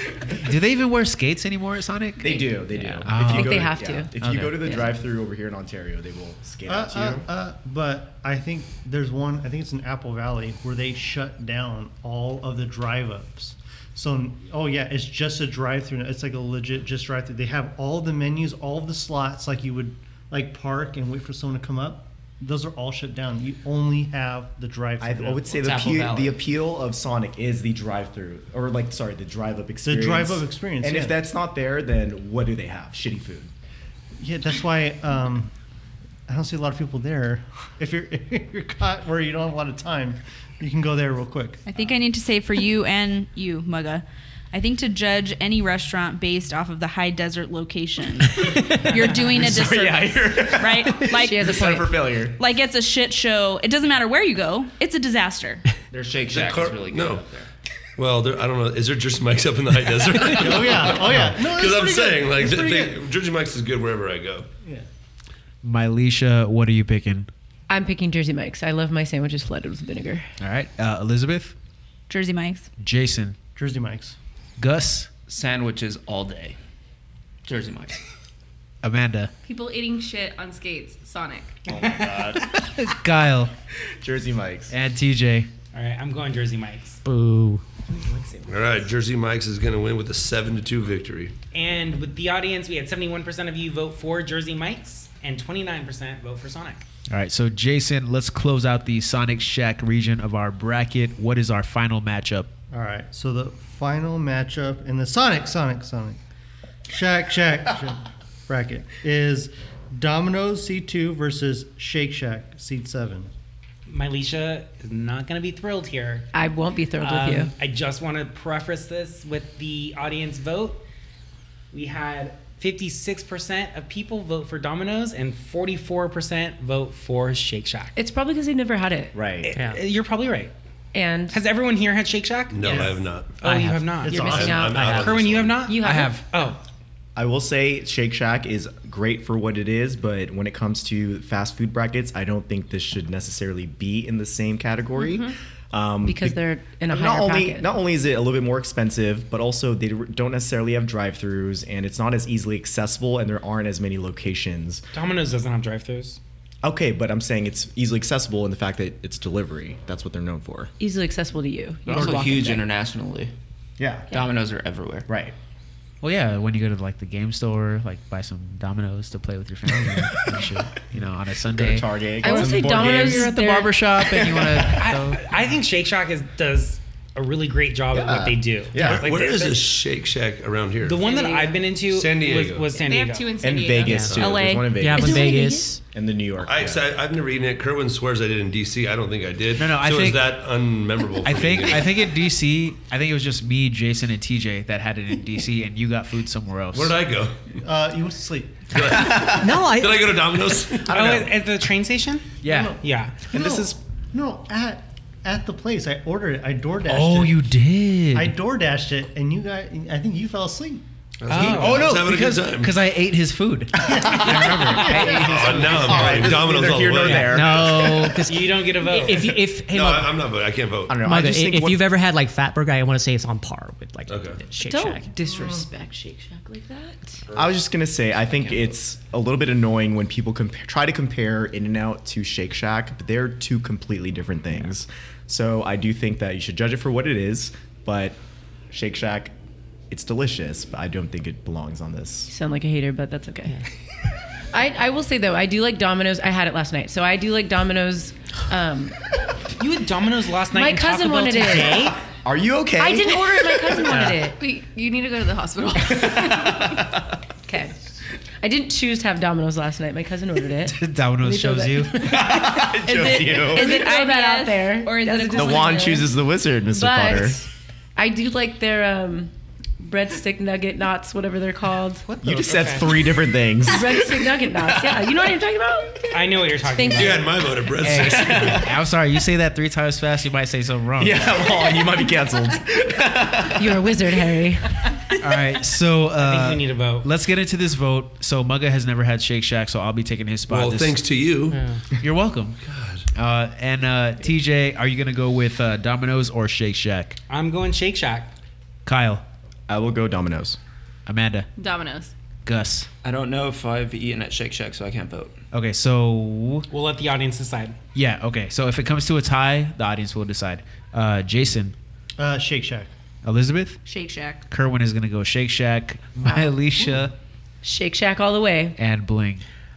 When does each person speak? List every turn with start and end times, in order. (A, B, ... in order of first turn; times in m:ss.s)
0:00.4-0:02.3 A
0:02.2-0:07.3 B
0:02.7-0:03.1 C
0:03.0-0:03.7 A
0:03.1-0:04.9 D
0:04.2-0:04.5 C
0:06.7-0:25.6 E
0:25.0-0:33.5 B
0:25.6-0:26.4 F
0:29.8-0:31.2 E
0:34.2-0:35.5 E
0:36.3-0:41.7 E
0:41.6-0:55.6 G
0:49.3-0:52.4 B
0:51.1-0:52.0 D
0:55.9-0:57.5 F
0:56.3-0:57.3 H
0:58.0-1:04.5 H
1:00.3-1:03.0 E
1:01.0-1:01.4 A
1:05.6-1:07.3 A
1:07.7-1:10.3 D
1:10.4-1:11.5 A
1:12.1-1:12.7 G
1:12.8-1:13.4 A
1:13.6-1:14.2 E
1:14.6-1:15.1 A
1:15.3-1:16.6 F
1:17.4-1:18.0 F
1:18.8-1:19.3 A
1:19.4-1:21.6 I
1:21.7-1:22.4 B
1:22.4-1:23.5 A
1:24.0-1:24.7 B
1:24.7-1:25.5 A
1:25.7-1:27.0 J
1:27.0-1:27.6 C
1:27.9-1:28.9 B
1:28.5-1:31.3 H
1:31.5-1:36.8 J
1:37.1-1:42.5 A
1:42.7-1:46.2 E
1:46.9-1:53.3 E
1:53.9-1:56.3 J
1:56.3-1:57.5 D
1:57.0-2:00.8 J
2:01.7-2:07.9 J
2:07.9-2:09.2 D
2:09.1-2:09.5 B
2:09.4-2:10.5 J
2:10.9-2:11.4 D
2:11.3-2:16.6 J
2:12.5-2:13.4 H
2:12.6-2:12.9 E
2:13.4-2:14.0 C
2:14.0-2:14.7 E
2:14.0-2:15.1 D
2:14.1-2:15.6 H
2:14.7-2:15.1 C
2:15.6-2:16.2 D
2:15.8-2:16.2 A
2:17.2-2:34.8 B
2:25.0-2:25.3 I
2:26.0-2:27.7 D
2:34.9-2:36.2 J
2:36.6-2:40.7 B
2:40.8-2:42.6 D
2:41.9-2:43.3 F
2:43.8-2:44.1 B
2:44.1-2:45.1 F
2:45.1-2:45.3 B
2:46.0-2:55.2 A
2:49.9-2:50.5 B
2:51.5-2:53.3 B
2:52.2-2:53.8 D
2:54.0-2:54.8 B
2:54.6-2:59.7 J
2:57.9-2:59.1 B
2:58.8-3:01.1 H
3:00.8-3:03.4 J
3:01.0-3:01.5 D
3:01.2-3:01.5 I
3:01.9-3:02.8 H
3:02.8-3:04.0 I
3:03.4-3:06.9 B
3:03.9-3:05.8 C
3:03.9-3:04.3 H
3:04.9-3:05.8 D
3:06.4-3:12.0 H
3:09.6-3:10.3 A
3:11.2-3:17.0 A
3:16.7-3:17.6 H
3:17.6-3:18.7 E
3:18.7-3:21.2 H
3:18.9-3:19.4 B
3:19.3-3:20.1 C
3:20.9-3:23.2 J
3:20.9-3:21.3 B
3:22.4-3:22.8 A
3:22.4-3:22.8 E
3:23.3-3:27.4 E
3:23.3-3:23.8 B
3:26.9-3:28.3 A
3:28.1-3:30.8 E
3:31.2-3:32.7 H
3:31.3-3:31.9 J
3:31.3-3:36.3 A
3:34.1-3:35.1 J
3:35.1-3:37.6 H
3:35.8-3:38.0 B
3:37.0-3:40.1 C
3:38.2-3:39.3 J
3:39.7-3:41.0 H
3:40.9-3:41.8 B
3:41.0-3:45.1 C
3:44.1-3:44.4 H
3:44.6-3:47.2 D
3:47.3-3:58.2 B
3:58.7-3:59.3 B
3:59.9-4:02.3 B
4:02.3-4:03.6 D
4:04.5-4:09.0 D
4:09.6-4:12.0 J
4:10.5-4:11.9 D
4:12.2-4:14.0 B
4:12.8-4:14.4 D
4:14.4-4:16.8 I
4:15.9-4:17.0 B
4:17.4-4:17.7 D
4:18.4-4:26.1 D
4:20.7-4:22.0 A
4:22.0-4:23.7 B
4:23.4-4:25.5 G
4:25.1-4:25.9 I
4:25.3-4:27.4 B
4:26.7-4:32.1 D
4:32.2-4:34.3 B
4:32.3-4:32.9 J
4:33.6-4:37.2 D
4:36.1-4:37.3 J
4:36.9-4:38.6 H
4:37.8-4:41.2 A
4:38.1-4:38.6 B
4:41.0-4:44.2 B
4:43.6-4:44.8 D
4:45.2-4:51.0 A
4:46.2-4:47.1 J
4:50.5-4:51.6 H
4:51.5-4:51.8 C
4:52.0-4:52.6 A
4:52.6-4:53.1 H
4:53.1-4:57.2 A
4:57.3-4:58.3 J
4:58.8-4:59.2 A
4:59.7-5:00.6 B
5:01.0-5:01.5 A
5:01.6-5:02.1 I
5:02.4-5:02.9 A
5:03.0-5:05.4 F
5:05.5-5:06.7 A
5:06.7-5:07.8 J
5:07.9-5:11.7 A
5:12.2-5:12.9 E
5:13.2-5:13.8 A
5:13.8-5:14.4 G
5:14.5-5:17.1 A
5:16.2-5:16.5 D
5:17.6-5:18.8 D
5:18.8-5:19.4 A